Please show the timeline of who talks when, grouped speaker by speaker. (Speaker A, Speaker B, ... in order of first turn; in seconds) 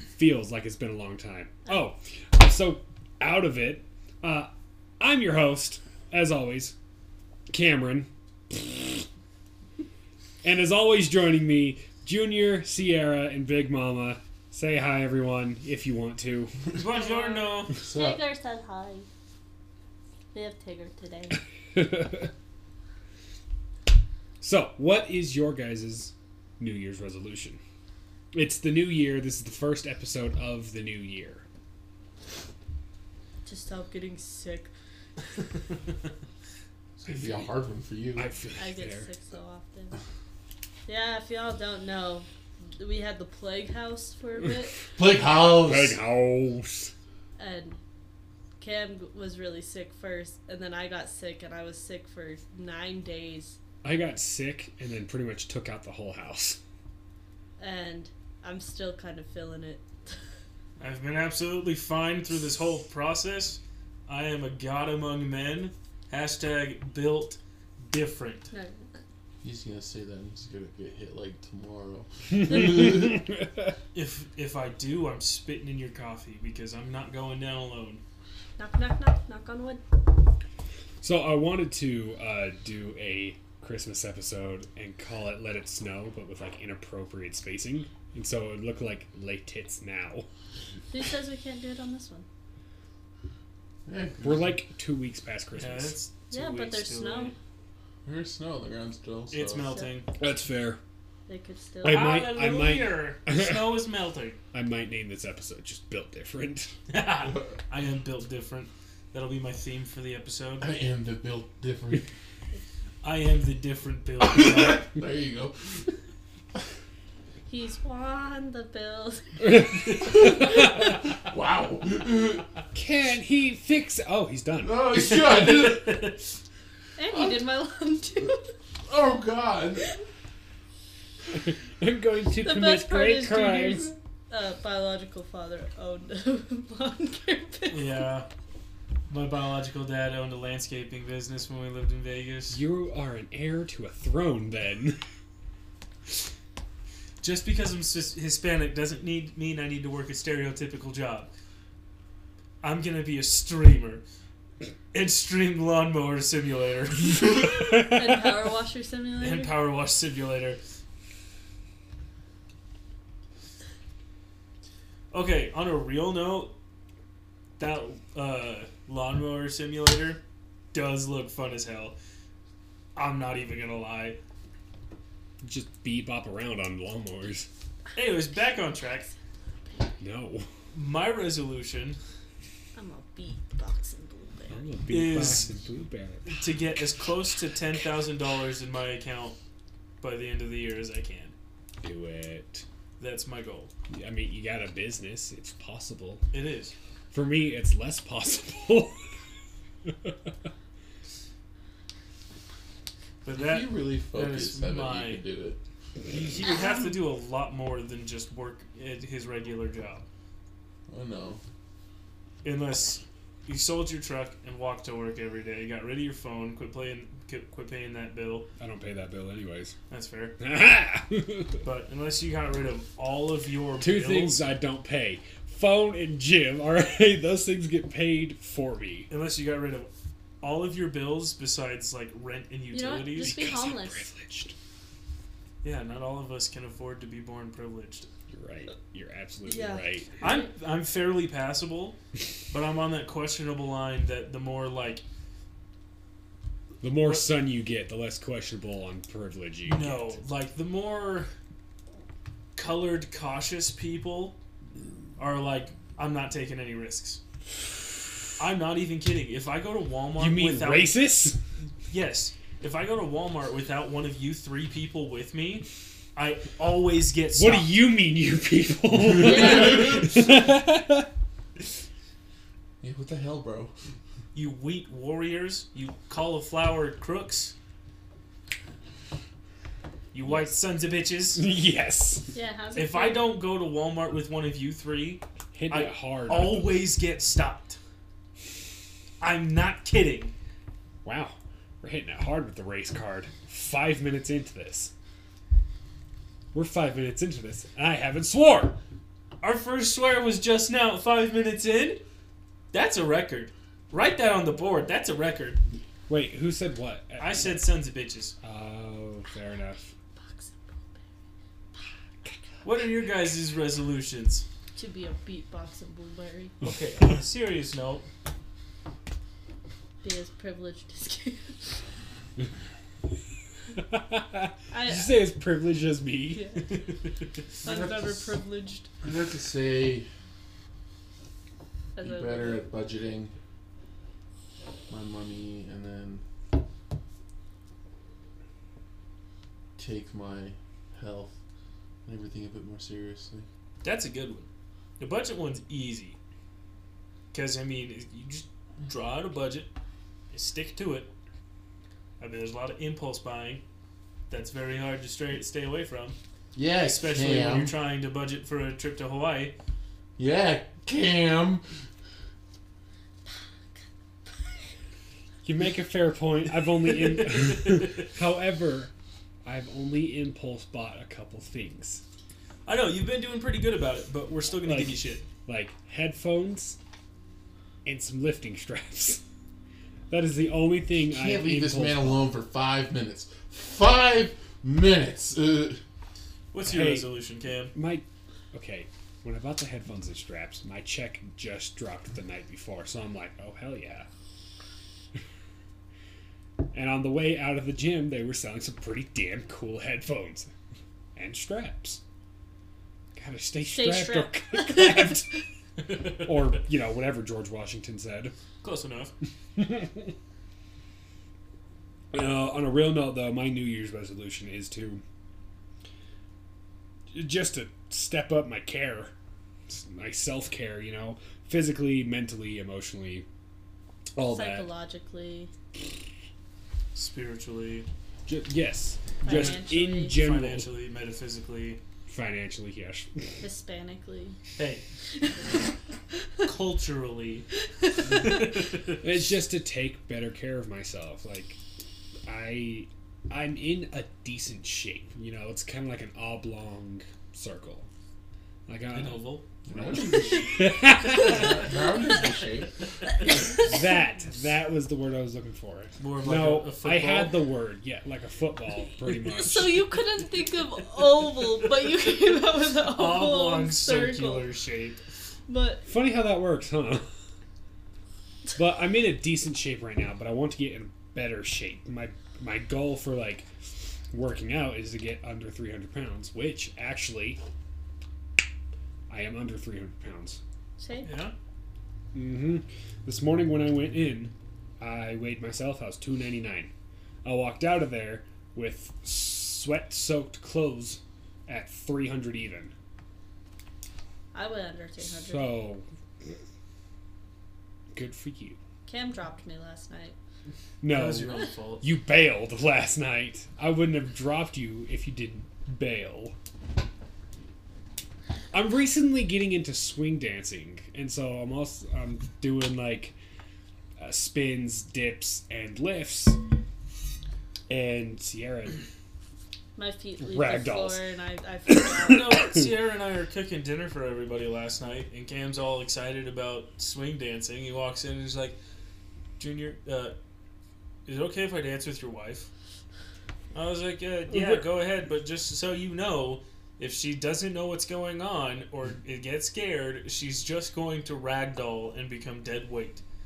Speaker A: 0.1-4.5, 5.0-6.7, 7.5-9.1, 10.4-16.6, 21.7-22.3, 24.4-27.6, 28.3-31.4, 37.1-37.5, 38.1-39.1, 45.5-46.9, 53.8-56.6, 72.3-73.8, 81.0-90.3, 94.2-96.0, 100.2-100.8, 101.8-103.8, 104.5-106.7, 122.7-125.1, 131.3-133.9, 142.5-145.0, 175.4-177.5, 180.0-180.5, 184.5-186.5, 191.8-192.6, 193.9-196.2, 197.1-199.0, 199.8-200.3, 218.6-219.8, 220.4-221.6, 223.8-229.1, 233.2-234.6, 238.3-240.2, 246.8-250.2, 260.2-261.4, 267.4-271.1, 281.4-282.3, 285.5-286.8, 291.0-294.9, 296.5-298.8, 306.1-307.6, 308.4-309.9, 323.8-326.5, 365.4-368.9, 369.4-372.0, 374.6-376.8, 377.9-379.2, 380.1-382.2, 386.6-387.1, 387.7-394.1, 396.7-400.5, 401.1-402.0, 403.1-405.3, 406.1-408.3, 409.6-410.1, 412.1-415.0, 417.1-419.1, 419.7-423.3, 424.1-424.7, 428.3-430.7, 432.1-433.4, 439.0-441.6, 442.3-447.9, 448.7-449.2, 449.8-451.7, 453.6-459.9, 465.9-467.1, 468.6-473.5, 474.1-477.4, 479.1-480.4, 482.1-486.7, 487.2-492.7, 495.2-495.9, 497.9-498.6, 500.8-506.4, 508.5-513.2, 514.0-516.4, 517.7-518.8, 520.2-521.0, 521.7-522.7, 534.3-534.7
Speaker B: 16.8-17.8, 60.8-68.5, 73.9-78.0, 95.6-97.3, 99.3-100.1, 101.9-104.4, 106.9-110.7, 113.0-114.9, 124.9-126.2, 137.7-138.3, 139.1-142.6, 147.2-151.3, 152.6-154.0, 154.9-157.8, 159.2-160.6, 165.1-166.6, 167.6-170.2, 170.7-171.9, 172.9-174.2, 177.9-179.1, 180.7-182.0, 184.9-185.5, 186.3-189.4, 190.0-191.3, 193.0-193.7, 196.3-196.7, 203.2-205.2, 206.1-210.1, 212.4-218.5, 219.9-220.4, 221.6-224.4, 229.1-229.9, 230.4-233.5, 235.6-238.1, 240.2-242.0, 242.5-245.0, 247.0-247.2, 249.7-251.3, 252.6-254.4, 255.2-257.2, 258.4-261.0, 261.9-267.7, 274.3-277.5, 280.1-281.4, 282.8-287.8, 289.2-290.3, 299.4-302.0, 302.7-305.6, 307.2-308.4, 312.6-314.4, 316.6-318.1, 326.7-327.1, 343.8-344.5, 345.0-346.2, 347.3-349.7, 350.3-351.1, 352.2-353.6, 354.3-356.2, 356.8-359.6, 366.9-368.1, 372.7-375.2, 386.5-387.7, 405.8-406.3, 408.6-409.1, 426.9-427.9, 429.2-431.8, 434.6-434.8, 436.4-437.5, 438.0-439.0, 448.9-449.5, 451.1-451.5, 456.0-457.4, 462.9-465.0, 481.0-481.3, 500.9-501.9, 522.1-528.6, 529.4-530.1, 531.1-532.5, 533.5-543.0
Speaker C: 16.9-19.1, 20.3-21.4, 33.5-34.7, 38.6-40.0, 40.9-44.8, 47.4-47.8, 48.6-53.6, 57.6-59.9, 68.5-68.9, 78.6-79.8, 90.9-92.2, 96.3-97.3, 101.3-102.2, 117.5-120.3, 127.0-128.5, 132.4-138.1, 157.7-159.5, 182.8-184.7, 206.4-206.9, 232.7-234.0, 239.4-240.5, 269.2-270.0, 282.3-283.3, 310.2-311.0, 311.8-312.4, 314.8-316.6, 320.0-321.9, 324.7-325.1, 326.3-326.7, 327.6-328.9, 331.9-332.6, 403.7-405.2, 424.3-425.5, 429.2-430.2, 433.4-434.4, 435.2-435.6, 451.1-451.4, 453.2-453.7, 459.3-464.5, 465.5-465.8, 480.8-481.1, 494.3-495.6, 498.9-500.2, 519.8-522.3
Speaker D: 17.8-18.2, 37.0-38.3, 45.0-46.0, 69.4-73.2, 93.9-94.5, 98.1-99.7, 110.6-112.1, 114.2-115.9, 120.0-122.5, 124.6-126.1, 128.9-129.9, 203.3-205.6, 210.9-211.4, 269.3-270.0, 272.8-273.7, 327.6-328.4, 329.0-330.1, 332.0-333.3, 334.9-336.2, 339.8-341.4, 342.1-343.5, 356.6-357.7, 360.2-361.6, 381.1-385.8, 449.7-450.5, 451.1-452.8